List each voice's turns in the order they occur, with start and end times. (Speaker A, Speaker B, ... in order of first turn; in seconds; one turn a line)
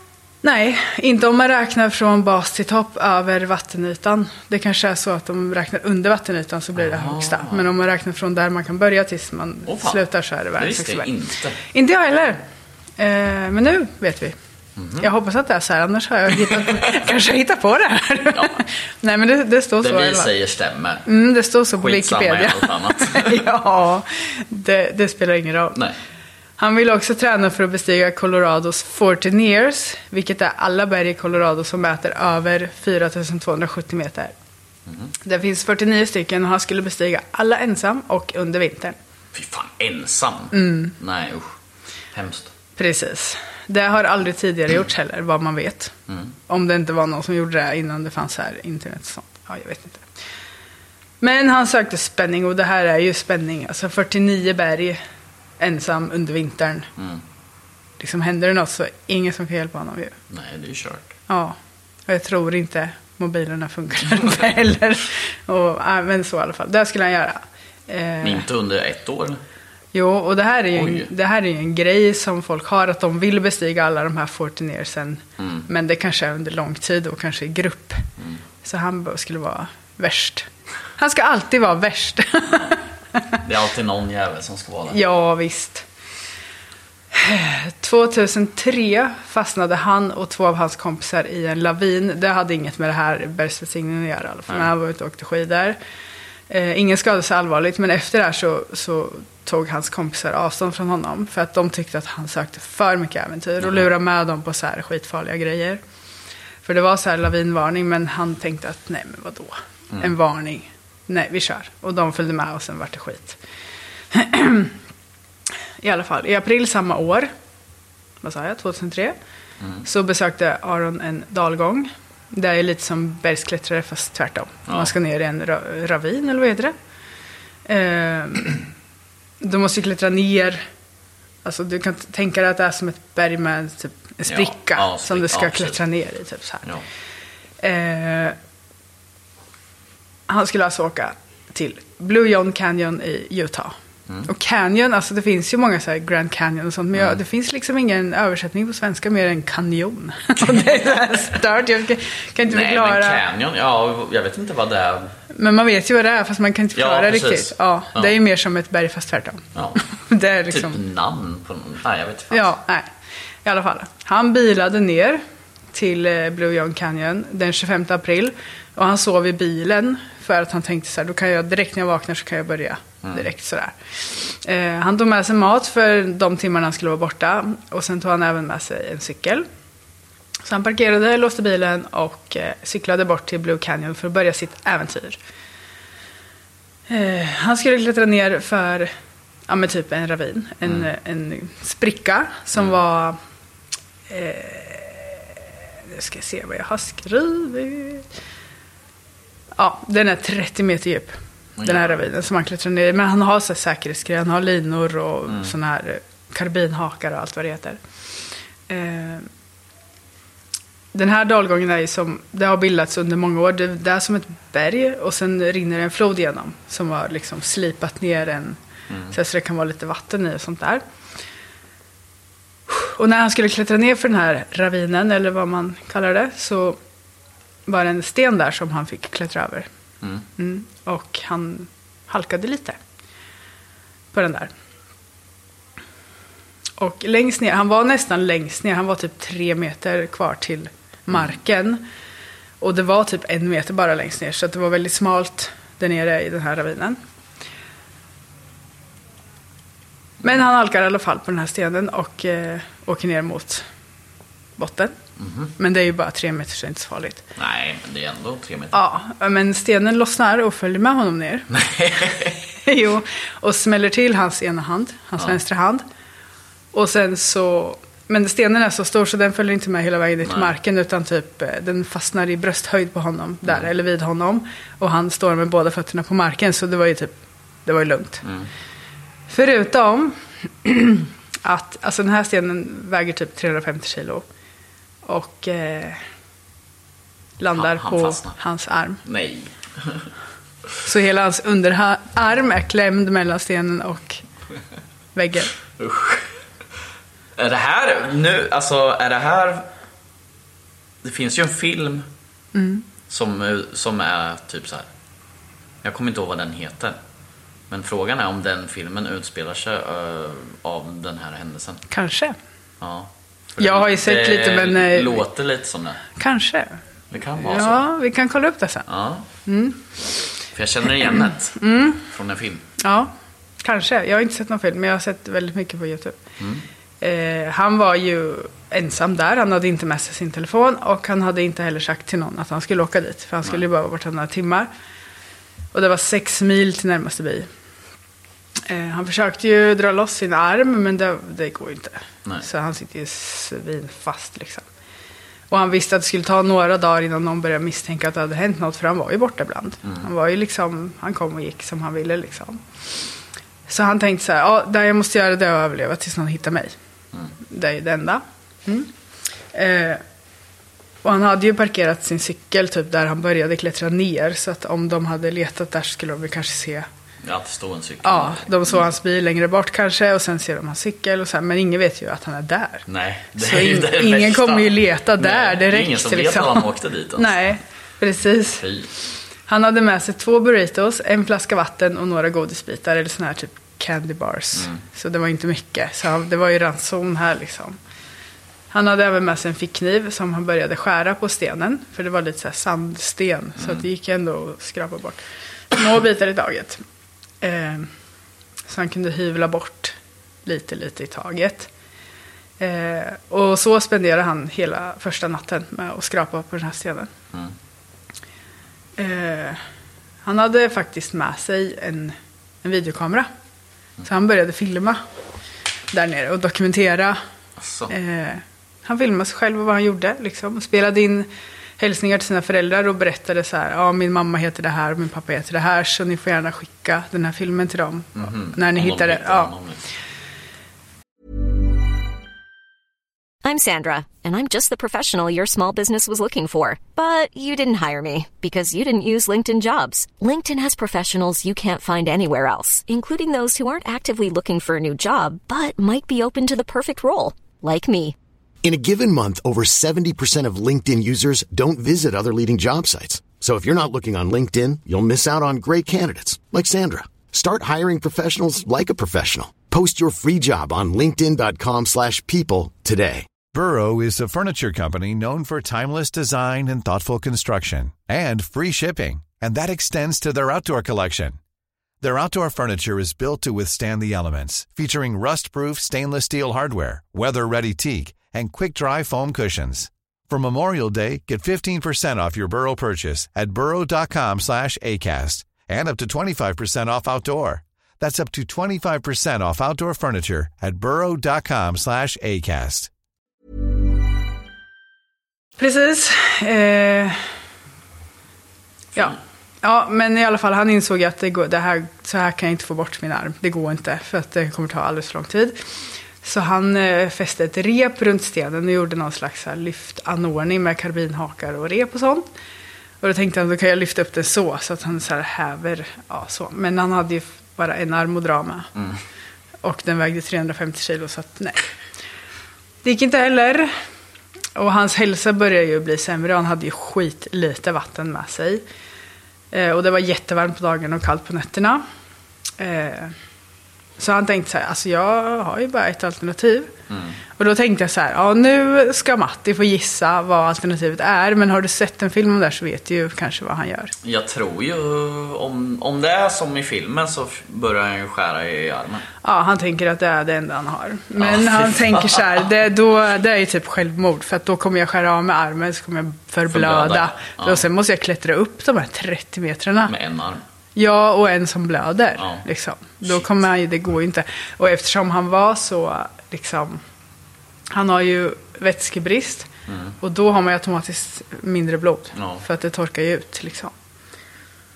Speaker A: 0.4-11.1
Speaker B: 6.8-7.7
Speaker B: 9.7-10.0
Speaker B: 10.6-11.6
Speaker A: 11.6-12.4
Speaker A: 13.0-14.4
Speaker B: 14.8-15.1
Speaker A: 15.0-20.3
Speaker B: 16.5-17.0
Speaker B: 18.3-18.6
Speaker B: 19.8-21.1
Speaker A: 21.1-25.8
Speaker B: 21.8-23.4
Speaker A: 26.6-34.3
Speaker B: 34.9-35.1
Speaker A: 35.2-39.0
Speaker B: 39.3-41.5
Speaker A: 40.5-40.9
Speaker B: 42.1-42.5
Speaker A: 42.8-45.9
Speaker A: 46.5-50.0
Speaker A: 51.2-55.0
Speaker A: 55.6-56.9
Speaker A: 58.0-60.1
Speaker B: 60.3-61.1
Speaker A: 61.3-68.5
Speaker B: 68.2-69.4
Speaker A: 69.9-78.1
Speaker B: 70.8-71.1
Speaker B: 75.4-75.7
Speaker A: 78.6-80.5
Speaker A: 81.0-83.4
Speaker B: 83.4-85.0
Speaker A: 84.9-85.8
Speaker A: 87.1-95.8
Speaker A: 96.5-105.8
Speaker A: 106.6-113.4
Speaker A: 114.1-114.7
Speaker A: 115.8-117.3
Speaker A: 118.2-119.2
Speaker B: 119.6-119.9
Speaker A: 119.8-126.7
Speaker A: 127.7-128.6
Speaker A: 129.4-130.6
Speaker A: 131.4-136.6
Speaker B: 134.3-135.8
Speaker A: 137.6-138.4
Speaker A: 140.3-143.8
Speaker A: 144.3-153.2
Speaker B: 146.9-147.2
Speaker B: 150.4-151.2
Speaker B: 152.5-155.1
Speaker A: 155.3-159.4
Speaker B: 156.8-158.1
Speaker B: 159.6-159.8
Speaker A: 160.0-160.8
Speaker B: 160.5-162.5
Speaker A: 162.3-162.9
Speaker A: 163.4-165.2
Speaker A: 165.7-179.5
Speaker A: 180.4-185.2
Speaker A: 186.9-188.9
Speaker A: 189.5-193.2
Speaker A: 194.1-198.1
Speaker A: 199.6-207.8
Speaker B: 201.6-202.0
Speaker A: 208.7-209.3
Speaker A: 210.9-218.6
Speaker B: 218.9-219.1
Speaker A: 219.1-220.8
Speaker A: 222.7-226.8
Speaker A: 227.7-229.7
Speaker A: 230.4-232.8
Speaker A: 234.1-234.5
Speaker A: 236.8-241.8
Speaker A: 242.6-247.0
Speaker A: 250.2-253.6
Speaker A: 254.6-254.9
Speaker B: 255.2-255.5
Speaker A: 255.6-257.2
Speaker B: 257.4-258.8
Speaker A: 258.7-261.5
Speaker B: 261.5-262.4
Speaker A: 262.6-265.9
Speaker A: 266.7-277.1
Speaker B: 270.2-270.5
Speaker A: 277.6-278.2
Speaker B: 278.2-278.5
Speaker A: 279.3-284.2
Speaker A: 285.1-286.0
Speaker A: 287.4-289.0
Speaker B: 287.5-288.4
Speaker B: 289.1-290.1
Speaker A: 290.8-294.2
Speaker A: 295.1-295.5
Speaker B: 295.8-296.3
Speaker B: 297.4-299.7
Speaker B: 301.0-302.1
Speaker A: 302.6-302.9
Speaker B: 303.1-304.9
Speaker B: 305.8-307.0
Speaker B: 307.7-311.8
Speaker A: 311.9-312.4
Speaker B: 312.8-316.0
Speaker A: 313.6-315.2
Speaker A: 316.2-316.8
Speaker B: 317.1-317.8
Speaker A: 317.4-318.9
Speaker B: 318.9-319.2
Speaker A: 319.5-319.8
Speaker B: 320.5-322.6
Speaker A: 321.1-322.0
Speaker A: 322.8-326.2
Speaker B: 326.4-326.6
Speaker A: 327.0-334.7
Speaker A: 335.7-337.5
Speaker A: 338.6-344.6
Speaker A: 345.5-352.6
Speaker A: 353.7-356.7
Speaker A: 357.5-358.9
Speaker A: 359.5-360.0
Speaker A: 361.0-366.9
Speaker B: 367.2-368.8
Speaker A: 368.0-378.6
Speaker B: 372.9-377.4
Speaker B: 378.6-378.9
Speaker A: 379.5-387.8
Speaker A: 388.7-395.2
Speaker A: 395.7-396.8
Speaker A: 397.4-397.9
Speaker A: 398.7-401.7
Speaker A: 402.6-407.1
Speaker A: 409.0-409.6
Speaker A: 410.2-413.3
Speaker A: 414.0-415.0
Speaker A: 415.9-417.2
Speaker B: 417.6-417.9
Speaker A: 417.9-429.5
Speaker B: 428.1-429.8
Speaker C: 433.4-448.1
Speaker D: 448.6-463.3
Speaker E: 463.5-471.4
Speaker E: 472.0-492.9
Speaker A: 495.6-497.2
Speaker A: 498.9-505.6
Speaker A: 506.2-512.3
Speaker A: 513.0-518.7
Speaker A: 519.6-521.6
Speaker A: 522.8-523.7
Speaker A: 524.6-528.6
Speaker A: 529.5-531.8
Speaker A: 532.6-533.1
Speaker A: 534.0-536.7
Speaker B: 536.9-537.2
Speaker A: 537.4-543.9
Speaker B: 544.0-549.1
Speaker A: 549.2-559.9
Speaker B: 551.2-552.4
Speaker B: 556.5-557.6
Speaker B: 559.9-560.4
Speaker A: 560.8-566.8
Speaker B: 562.2-562.4
Speaker A: 567.7-569.5
Speaker B: 569.7-570.0
Speaker A: 570.0-573.7
Speaker B: 572.1-572.4